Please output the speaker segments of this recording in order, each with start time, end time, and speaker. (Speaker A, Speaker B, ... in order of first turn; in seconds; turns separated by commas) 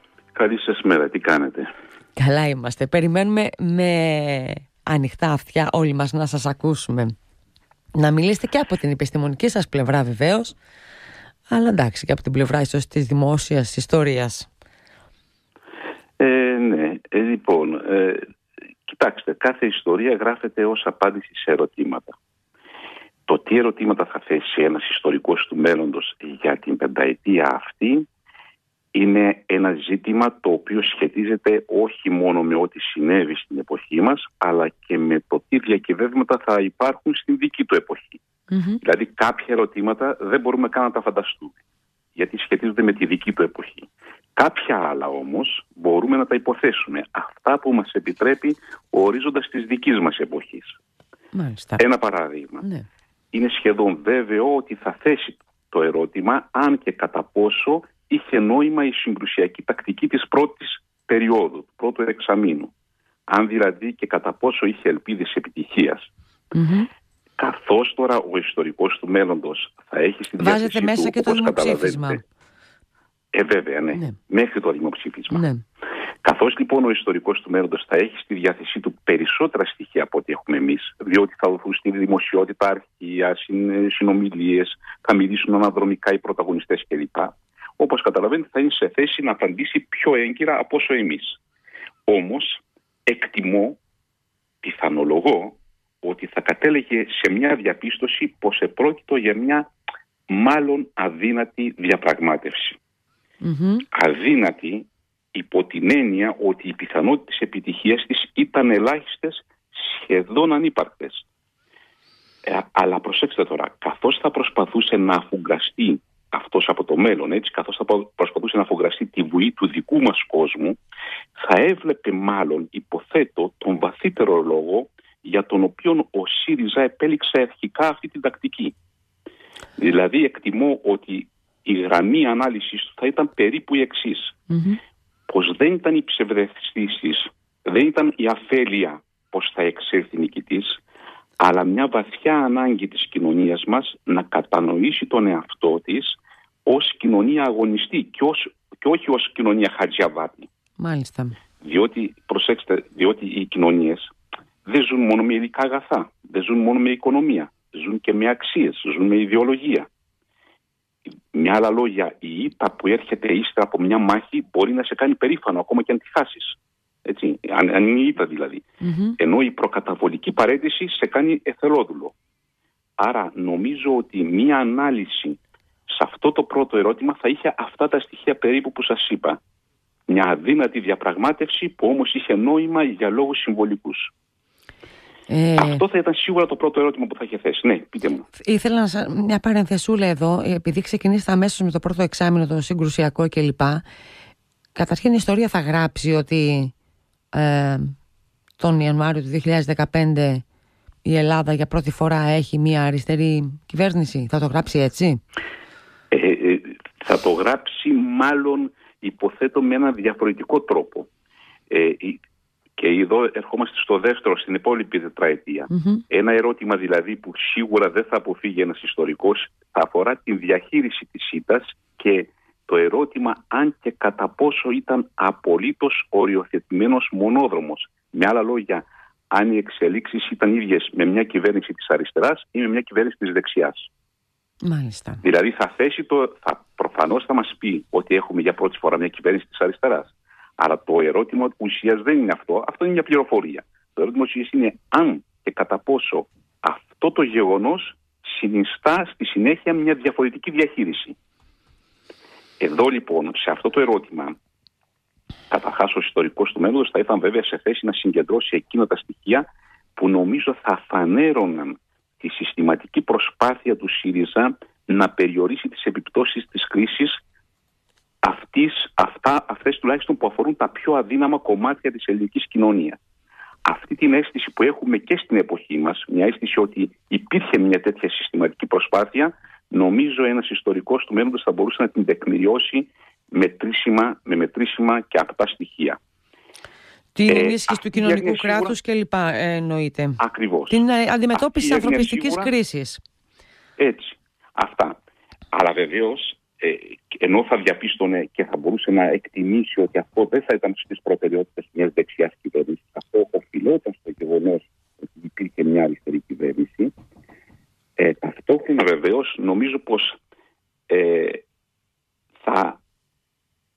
Speaker A: 0.3-1.7, Speaker B: 2.2-7.1, Speaker B: 8.0-10.6, Speaker B: 11.5-14.5, Speaker A: 16.2-18.2, Speaker A: 18.9-22.1, Speaker A: 23.3-28.1, Speaker A: 28.9-38.2, Speaker B: 38.5-38.8, Speaker A: 38.8-41.6, Speaker A: 42.2-50.8, Speaker B: 51.4-51.8, Speaker A: 51.8-52.6, Speaker A: 53.3-62.7, Speaker A: 63.3-66.1, Speaker B: 66.5-66.9, Speaker A: 67.4-72.2, Speaker B: 70.4-72.2, Speaker A: 73.3-75.4, Speaker B: 75.3-75.6, Speaker A: 76.2-91.4, Speaker A: 92.1-93.8, Speaker A: 94.6-99.7, Speaker A: 100.3-102.8, Speaker B: 103.4-103.8, Speaker A: 103.9-111.2, Speaker A: 112.5-120.8, Speaker A: 121.4-128.7, Speaker A: 129.8-134.4, Speaker B: 134.5-134.8, Speaker A: 135.3-140.8, Speaker A: 141.4-150.5, Speaker B: 150.8-151.4, Speaker A: 151.6-154.1, Speaker A: 154.7-159.9, Speaker A: 161.3-168.7, Speaker B: 168.8-169.2, Speaker A: 169.2-172.1, Speaker A: 173.0-175.4, Speaker A: 175.9-179.4, Speaker A: 180.1-184.1, Speaker B: 185.3-185.8, Speaker A: 185.6-188.2, Speaker B: 188.4-193.8, Speaker B: 194.8-196.7, Speaker B: 197.3-197.9, Speaker B: 198.6-200.4, Speaker B: 201.1-205.2, Speaker A: 206.1-211.1, Speaker A: 211.7-212.2, Speaker A: 212.8-233.9, Speaker B: 215.7-216.0, Speaker B: 234.7-235.2, Speaker A: 235.2-251.2, Speaker A: 252.6-254.4, Speaker A: 255.5-259.4, Speaker A: 260.0-267.2, Speaker A: 268.2-273.0, Speaker A: 273.6-286.0, Speaker B: 287.1-290.2, Speaker A: 287.3-288.8, Speaker A: 290.2-290.8, Speaker B: 290.7-293.0, Speaker A: 291.3-292.5, Speaker A: 293.8-295.0, Speaker A: 295.5-306.9, Speaker A: 308.0-310.2, Speaker A: 310.9-311.4, Speaker A: 312.4-312.8